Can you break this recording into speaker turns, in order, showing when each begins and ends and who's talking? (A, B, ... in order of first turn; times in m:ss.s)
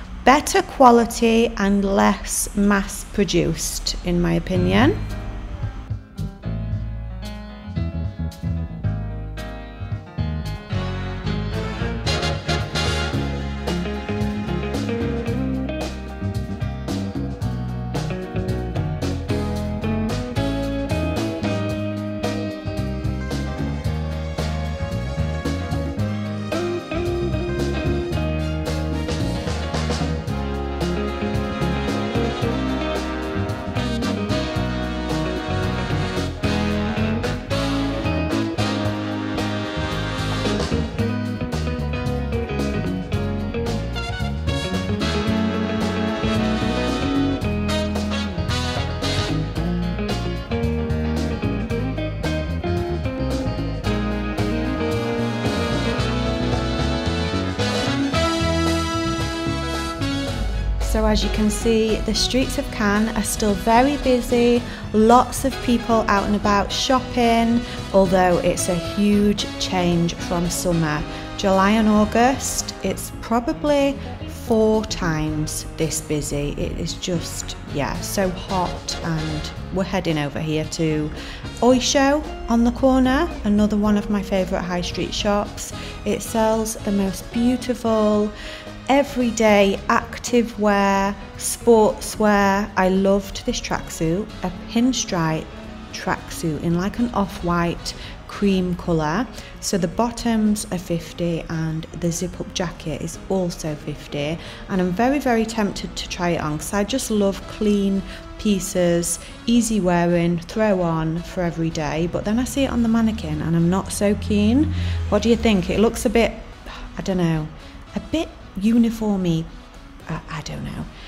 0:00.2-0:05.0 A
1:00.8-1:28.3 A
1:28.9-1:59.5 A
2:00.1-2:00.9 A